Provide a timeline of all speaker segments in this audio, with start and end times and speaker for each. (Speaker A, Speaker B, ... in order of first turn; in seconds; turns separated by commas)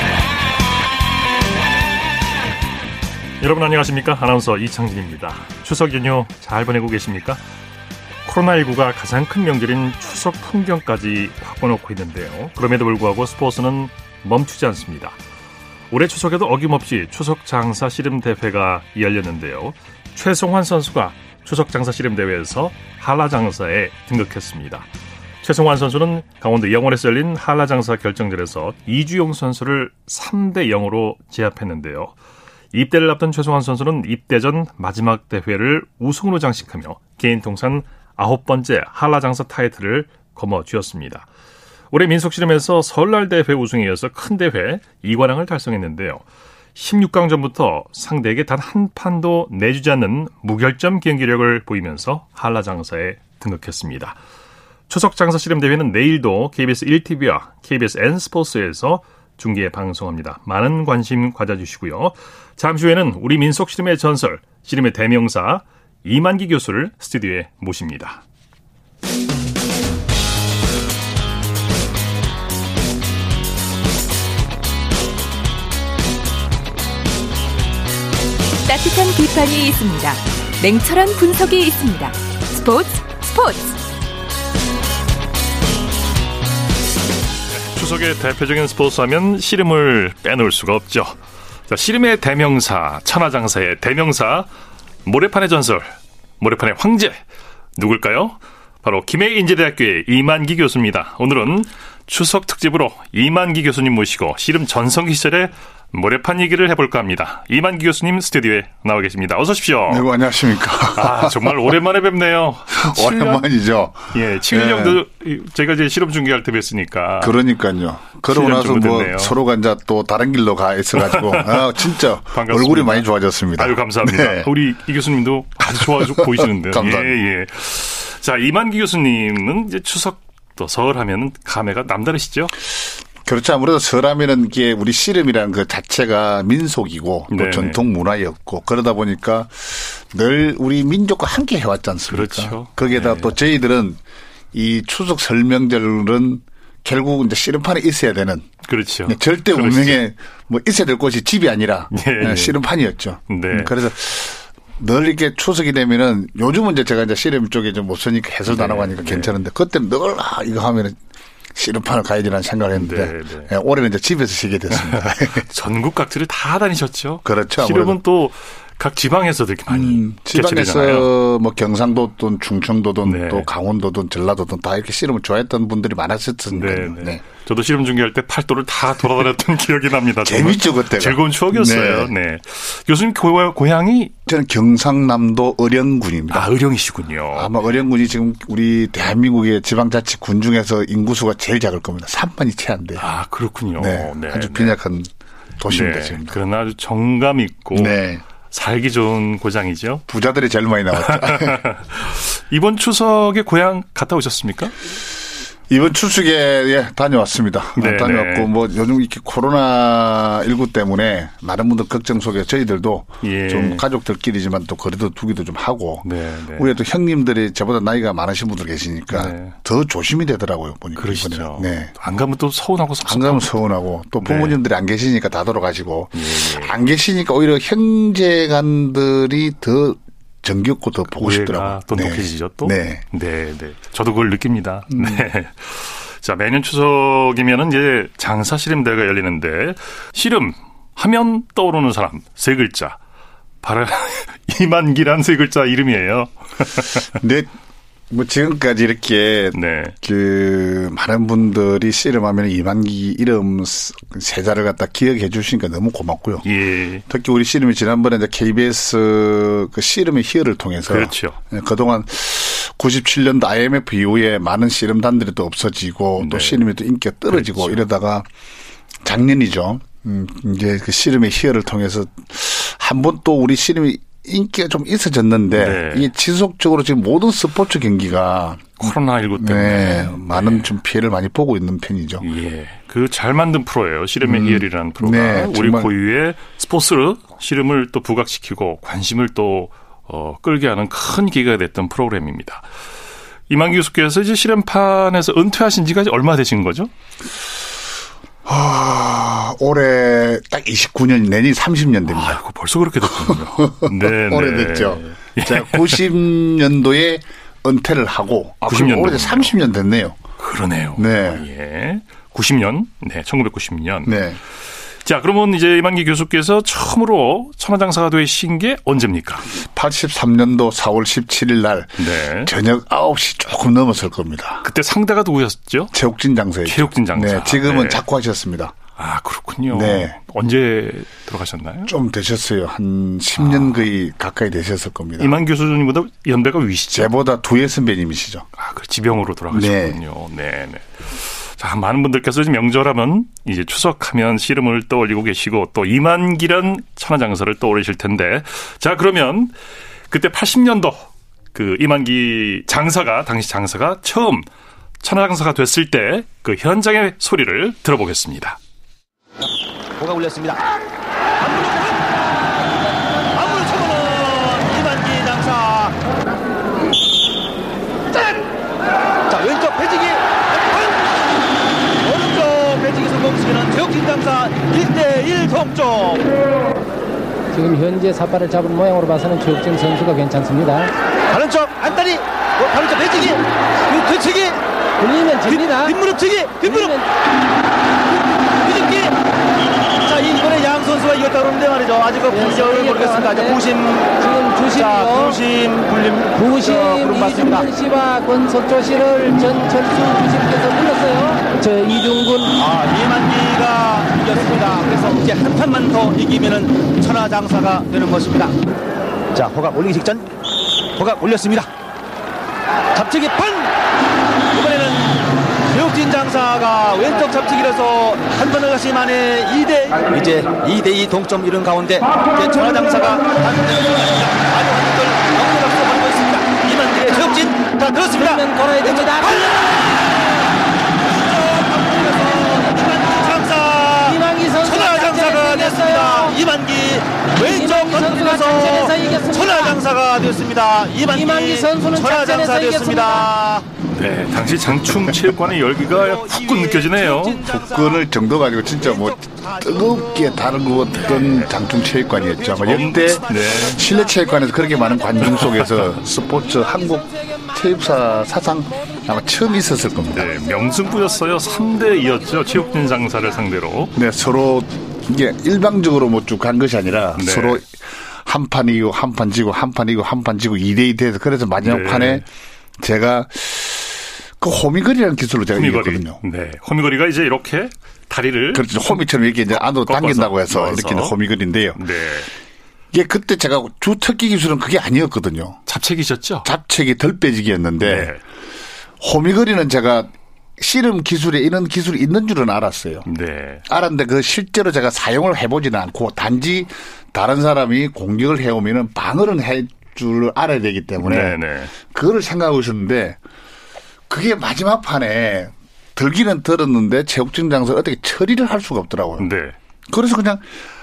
Speaker A: 3.4-7.4, Speaker A: 8.2-15.2, Speaker A: 15.9-24.9, Speaker A: 25.4-32.1, Speaker A: 32.7-41.3, Speaker A: 41.9-46.2, Speaker A: 46.7-54.2, Speaker A: 54.9-68.2, Speaker B: 78.6-83.8, Speaker A: 87.7-91.2, Speaker A: 91.7-94.5, Speaker A: 95.0-97.2, Speaker A: 97.8-110.1, Speaker C: 109.9-111.7, Speaker A: 110.9-113.5, Speaker C: 112.7-115.0, Speaker A: 114.1-117.3, Speaker C: 117.2-124.5, Speaker A: 118.3-119.3, Speaker A: 121.0-132.5, Speaker C: 125.8-127.2, Speaker C: 133.2-144.0, Speaker A: 137.3-137.8, Speaker A: 142.1-143.3, Speaker C: 144.5-148.5, Speaker A: 148.7-150.0, Speaker C: 149.1-161.0, Speaker A: 151.9-152.6, Speaker A: 153.3-153.7, Speaker A: 158.4-159.3, Speaker C: 161.5-165.4, Speaker A: 162.7-163.5, Speaker A: 164.7-171.1, Speaker C: 167.2-168.0, Speaker C: 169.7-177.2, Speaker A: 173.0-173.5, Speaker A: 176.5-184.1, Speaker C: 180.2-182.1, Speaker C: 184.2-186.5, Speaker A: 186.3-187.5, Speaker C: 187.3-193.1, Speaker A: 193.0-194.8, Speaker C: 193.8-196.4, Speaker A: 195.7-198.0, Speaker C: 197.7-198.2, Speaker A: 198.5-200.0, Speaker C: 200.1-201.6, Speaker A: 201.0-204.7, Speaker C: 205.7-221.9, Speaker A: 207.8-208.5, Speaker A: 213.2-213.8, Speaker A: 216.0-216.7, Speaker A: 219.1-219.5, Speaker A: 221.0-223.5, Speaker C: 223.0-233.0, Speaker A: 224.2-224.6, Speaker A: 226.1-226.7, Speaker A: 231.2-243.0, Speaker C: 234.9-235.2, Speaker A: 243.6-247.1, Speaker C: 247.2-247.5, Speaker C: 248.1-256.4, Speaker A: 249.5-249.9, Speaker A: 256.4-257.0, Speaker C: 257.1-268.3, Speaker A: 260.9-261.4, Speaker A: 266.2-266.6, Speaker A: 267.3-267.8, Speaker C: 269.0-282.2, Speaker A: 275.5-276.1, Speaker A: 278.8-280.7, Speaker A: 282.2-292.7, Speaker C: 284.2-285.9, Speaker A: 293.5-296.9, Speaker C: 298.4-302.4, Speaker A: 302.1-306.0, Speaker C: 303.0-310.2, Speaker A: 308.7-309.5, Speaker A: 310.4-314.2, Speaker C: 310.9-311.4, Speaker C: 314.1-314.4, Speaker A: 315.0-319.6, Speaker C: 319.5-324.6, Speaker A: 322.0-322.5, Speaker A: 324.6-325.9, Speaker C: 325.9-328.8, Speaker A: 326.6-328.0, Speaker A: 328.9-331.9, Speaker C: 329.7-330.2, Speaker C: 331.9-335.4, Speaker A: 333.4-333.8, Speaker A: 335.2-337.1, Speaker C: 336.9-338.4, Speaker A: 338.6-349.5, Speaker C: 339.5-340.0, Speaker A: 350.1-354.5, Speaker A: 355.0-358.6, Speaker D: 360.0-360.6, Speaker D: 361.4-362.4, Speaker D: 363.3-366.0, Speaker D: 369.3-371.1, Speaker D: 372.0-376.3, Speaker E: 377.5-380.9, Speaker D: 381.3-384.6, Speaker E: 385.0-385.9, Speaker D: 385.5-386.9, Speaker E: 386.6-387.1, Speaker D: 388.6-389.1, Speaker D: 390.0-397.7, Speaker E: 392.3-393.6, Speaker E: 394.2-395.4, Speaker E: 396.4-402.5, Speaker D: 402.5-408.6, Speaker D: 409.3-410.3, Speaker D: 410.9-411.7, Speaker D: 412.9-413.7, Speaker D: 414.5-430.4, Speaker E: 428.1-429.6, Speaker D: 431.1-443.6, Speaker E: 432.3-433.3, Speaker E: 434.0-436.4, Speaker E: 437.4-439.8, Speaker E: 441.1-443.3, Speaker A: 443.9-447.4, Speaker D: 445.8-448.1, Speaker C: 447.4-460.3, Speaker D: 448.8-451.3, Speaker A: 451.0-451.5, Speaker D: 452.0-454.2, Speaker A: 452.6-453.8, Speaker A: 455.2-456.0, Speaker A: 460.1-463.9, Speaker C: 463.9-472.2, Speaker A: 467.1-467.6, Speaker A: 471.6-472.2, Speaker C: 472.8-476.2, Speaker A: 475.5-479.0, Speaker C: 478.5-481.8, Speaker A: 479.5-481.1, Speaker A: 481.7-482.3, Speaker C: 482.9-485.6, Speaker A: 485.6-486.5, Speaker C: 486.4-488.1, Speaker A: 487.8-488.2, Speaker C: 489.0-493.1, Speaker A: 493.1-493.6, Speaker C: 493.7-503.2, Speaker A: 501.0-501.7, Speaker C: 504.1-509.3, Speaker A: 509.2-509.6, Speaker C: 509.9-510.5